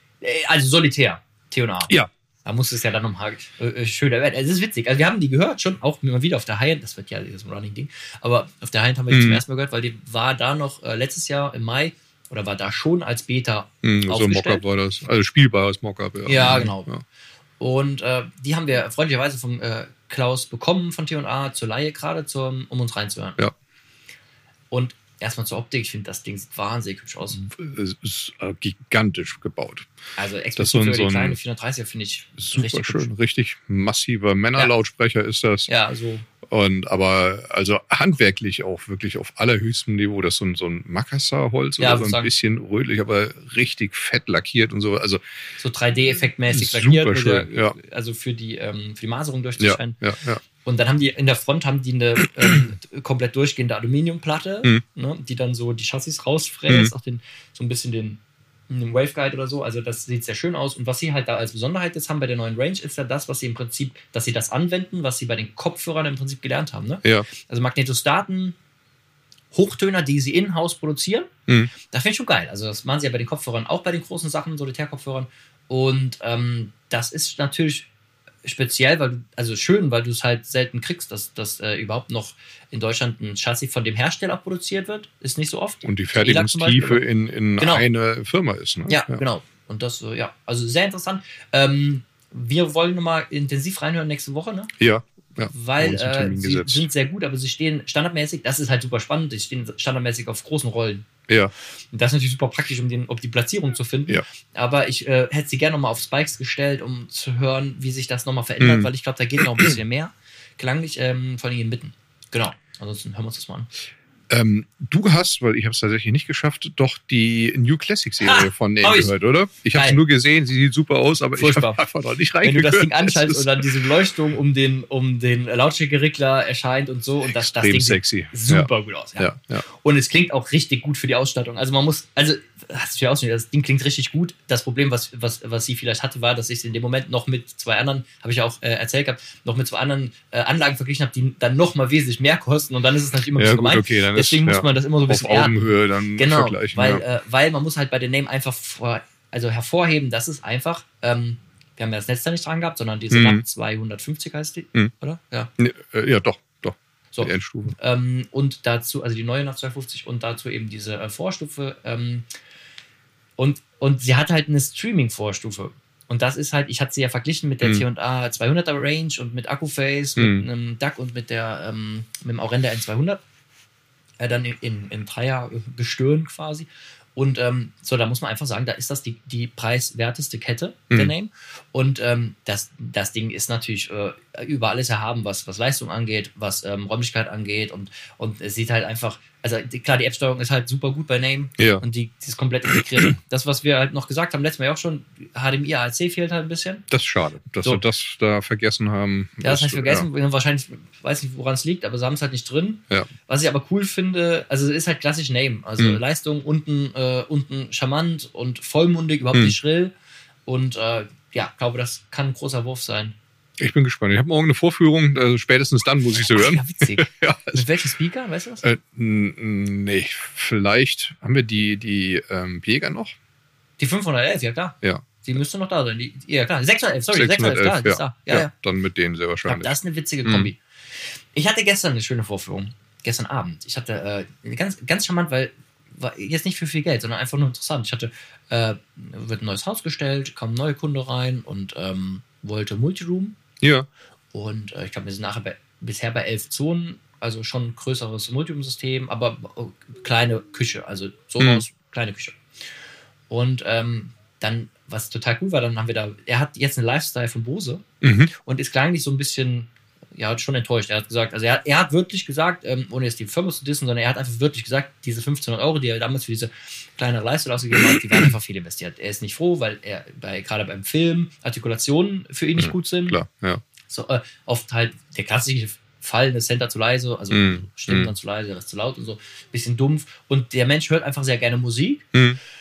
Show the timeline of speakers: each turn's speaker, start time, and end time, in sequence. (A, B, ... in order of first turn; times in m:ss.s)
0:00.2-0:01.9 A
0:02.4-0:14.6 A
0:09.1-0:09.4 B
0:13.8-0:17.0 B
0:16.2-0:16.9 A
0:17.6-0:23.4 A
0:24.7-0:27.4 A
0:27.4-0:29.8 B
0:30.2-0:33.1 A
0:30.6-0:31.4 B
0:32.5-0:35.7 B
0:35.7-0:36.2 A
0:36.5-0:45.2 B
0:41.8-0:42.3 A
0:45.6-0:50.0 A
0:46.5-0:47.8 B
0:49.6-0:50.4 B
0:50.6-1:08.6 A
1:09.5-1:17.9 A
1:18.4-1:27.0 A
1:25.8-1:29.2 B
1:27.6-1:27.8 A
1:28.9-1:34.7 A
1:34.8-1:36.9 B
1:35.5-1:41.1 A
1:41.9-1:53.7 A
1:48.6-1:49.8 B
1:54.3-2:03.7 B
1:58.2-1:59.1 A
1:59.7-2:00.0 A
2:01.4-2:01.9 A
2:02.4-2:25.6 A
2:07.2-2:09.6 B
2:23.4-2:27.0 B
2:26.1-2:35.5 A
2:33.1-2:33.4 B
2:35.6-2:37.8 B
2:37.1-2:42.2 A
2:43.4-2:53.2 A
2:50.2-2:50.4 B
2:54.2-3:16.8 A
3:11.6-3:11.8 B
3:16.9-3:20.1 B
3:19.4-3:29.9 A
3:30.4-3:33.1 A
3:33.6-3:37.7 B
3:36.1-3:38.6 A
3:38.6-3:43.1 B
3:43.8-3:48.5 A
3:47.1-3:49.7 B
3:49.4-3:50.6 A
3:50.2-3:50.5 B
3:51.3-4:03.4 A
4:03.6-4:03.9 B
4:04.3-4:12.4 A
4:13.3-4:33.2 A
4:18.0-4:18.3 B
4:32.6-4:33.6 B
4:33.9-4:42.0 A
4:37.3-4:38.1 B
4:42.1-4:42.4 B